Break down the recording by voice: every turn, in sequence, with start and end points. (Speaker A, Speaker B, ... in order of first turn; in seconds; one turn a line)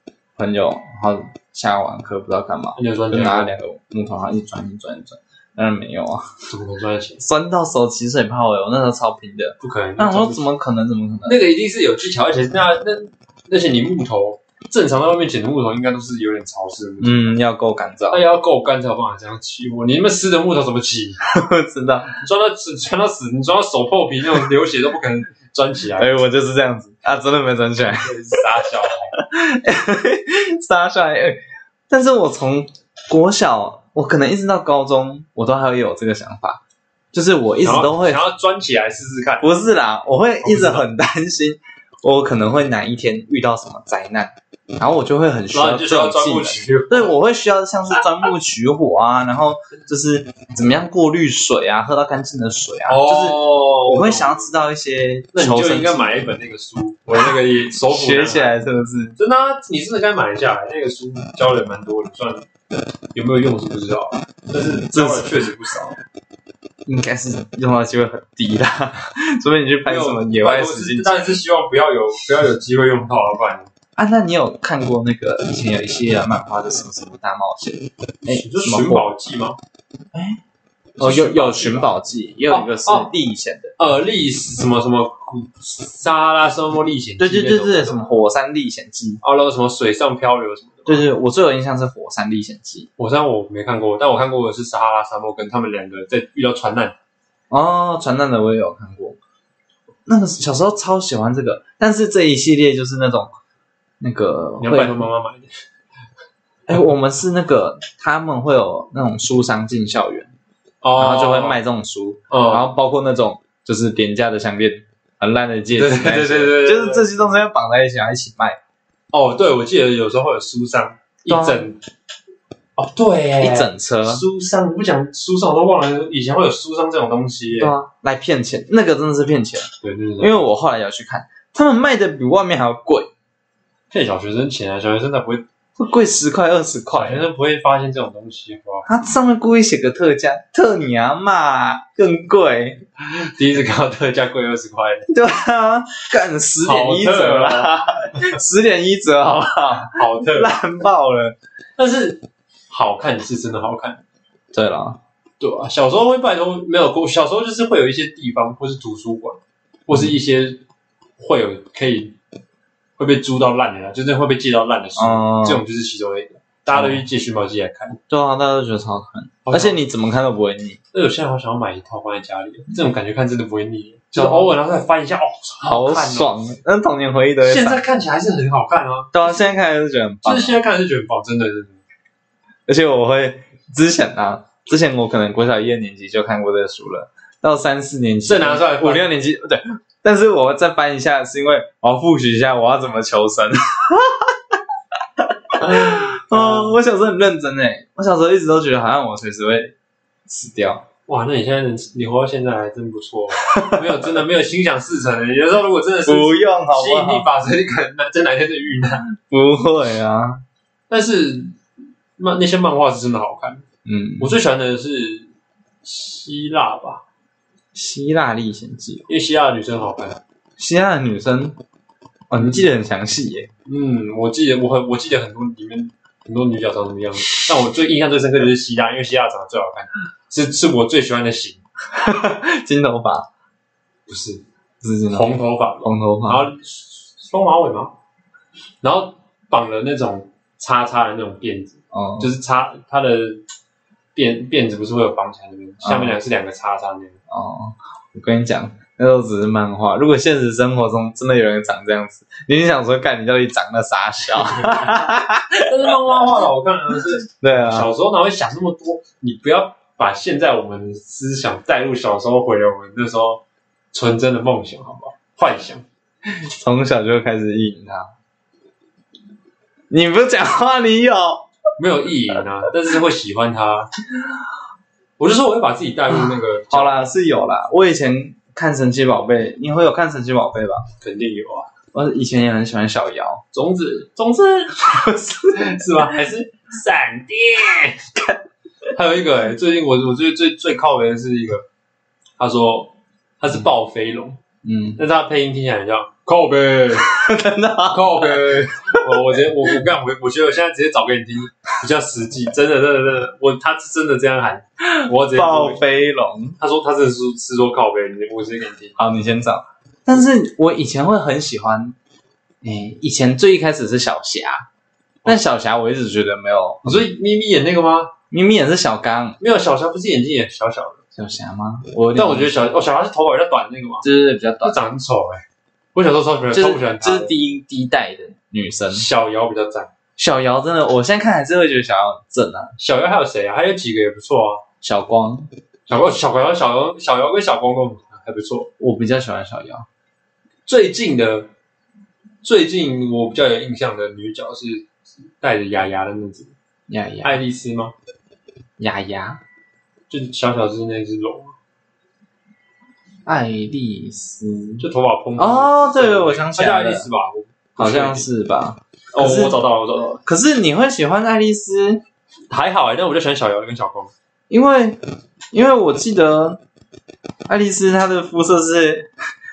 Speaker A: 0.4-6.2
Speaker B: 2.8-3.5
Speaker B: 6.5-7.2
Speaker A: 7.2-11.4
Speaker B: 9.6-10.5
Speaker B: 11.2-17.3
Speaker A: 17.0-18.2
Speaker B: 18.1-21.2
Speaker A: 21.2-22.1
Speaker B: 22.1-26.2
Speaker A: 26.0-28.4
Speaker B: 27.9-29.1
Speaker A: 29.1-36.6
Speaker A: 37.1-38.2
Speaker B: 37.6-39.5
Speaker A: 39.4-56.2
Speaker B: 40.4-40.9
Speaker B: 45.5-47.1
Speaker B: 52.9-54.5
Speaker B: 55.3-58.6
Speaker A: 57.2-59.2
Speaker B: 59.2-62.5
Speaker B: 63.1-66.0
Speaker A: 64.9-65.5
Speaker A: 66.8-71.4
Speaker B: 69.8-73.7
Speaker A: 74.0-79.1
Speaker B: 78.2-79.6
Speaker A: 80.1-80.4
Speaker B: 81.0-81.9
Speaker A: 81.0-83.7
Speaker B: 82.5-83.1
Speaker B: 83.8-88.0
Speaker A: 87.2-89.2
Speaker B: 89.2-91.1
Speaker A: 90.9-92.9
Speaker B: 93.0-97.0
Speaker A: 97.5-99.2
Speaker A: 100.0-103.3
Speaker A: 104.0-105.0
Speaker B: 104.6-105.5
Speaker A: 106.7-110.3
Speaker B: 110.8-111.6
Speaker A: 111.0-118.6
Speaker B: 112.3-112.7
Speaker B: 115.8-117.2
Speaker B: 119.1-121.8
Speaker A: 121.3-121.6
Speaker B: 122.8-127.7
Speaker A: 123.4-124.2
Speaker A: 127.6-133.1
Speaker B: 129.8-130.4
Speaker B: 133.9-135.4
Speaker A: 135.8-137.2
Speaker B: 136.9-138.9
Speaker A: 138.8-142.8
Speaker B: 143.0-145.1
Speaker A: 145.1-151.3
Speaker B: 146.6-148.3
Speaker B: 149.9-150.5
Speaker B: 151.8-154.0
Speaker A: 154.5-155.0
Speaker B: 155.4-160.6
Speaker B: 161.2-162.2
Speaker B: 163.0-168.0
Speaker A: 164.9-165.6
Speaker A: 166.7-167.0
Speaker A: 168.1-170.8
Speaker B: 169.4-169.8
Speaker B: 170.9-176.3
Speaker A: 174.1-174.5
Speaker A: 175.6-177.8
Speaker B: 177.4-179.3
Speaker A: 179.1-180.6
Speaker B: 180.2-181.8
Speaker A: 182.7-194.6
Speaker B: 188.2-189.1
Speaker A: 195.2-199.7
Speaker B: 195.6-196.8
Speaker A: 200.3-200.8
Speaker B: 201.1-209.1
Speaker A: 203.4-204.2
Speaker A: 206.1-207.3
Speaker A: 209.2-210.4
Speaker B: 210.9-211.6
Speaker B: 212.2-213.6
Speaker A: 213.8-214.4
Speaker B: 214.2-215.3
Speaker B: 215.8-217.0
Speaker A: 217.7-219.1
Speaker B: 219.1-220.2
Speaker A: 220.6-221.6
Speaker A: 222.3-223.5
Speaker B: 222.3-222.6
Speaker B: 223.7-231.6
Speaker A: 231.9-233.3
Speaker B: 234.1-234.4
Speaker A: 234.8-236.4
Speaker B: 235.1-237.9
Speaker B: 238.8-243.4
Speaker A: 241.9-242.3
Speaker B: 244.1-247.2
Speaker A: 245.8-246.2
Speaker A: 247.3-255.9
Speaker B: 254.4-254.8
Speaker B: 255.6-265.8
Speaker A: 257.4-257.9
Speaker A: 266.3-268.1
Speaker A: 269.9-271.5
Speaker B: 271.8-273.9
Speaker B: 275.2-277.0
Speaker A: 276.1-280.8
Speaker B: 281.0-281.7
Speaker A: 281.9-283.4
Speaker B: 283.5-284.9
Speaker A: 284.8-286.1
Speaker B: 285.5-288.0
Speaker B: 288.9-291.6
Speaker B: 292.4-294.4
Speaker A: 294.6-295.0
Speaker B: 295.0-297.1
Speaker A: 297.0-299.2
Speaker B: 297.9-305.8
Speaker A: 304.8-306.6
Speaker B: 306.6-309.0
Speaker A: 309.0-311.9
Speaker A: 312.6-314.7
Speaker A: 315.2-317.1
Speaker B: 316.8-318.1
Speaker A: 318.3-319.4
Speaker B: 319.4-321.0
Speaker A: 321.1-322.6
Speaker B: 322.1-324.1
Speaker A: 324.0-324.8
Speaker B: 324.6-325.4
Speaker B: 325.9-327.3
Speaker A: 326.5-329.1
Speaker B: 328.9-329.9
Speaker A: 330.2-332.7
Speaker B: 332.8-334.6
Speaker A: 334.8-335.5
Speaker B: 335.9-338.7
Speaker A: 338.8-339.9
Speaker B: 340.6-341.5
Speaker B: 342.4-344.9
Speaker B: 345.4-346.5
Speaker A: 346.9-347.4
Speaker B: 347.2-347.9
Speaker A: 348.8-349.4
Speaker B: 350.1-351.5
Speaker A: 353.2-357.1
Speaker B: 354.8-358.3
Speaker A: 357.8-359.6
Speaker B: 359.1-360.2
Speaker A: 360.2-362.0
Speaker B: 362.5-364.1
Speaker A: 364.5-365.0
Speaker A: 365.5-366.6
Speaker A: 367.5-369.1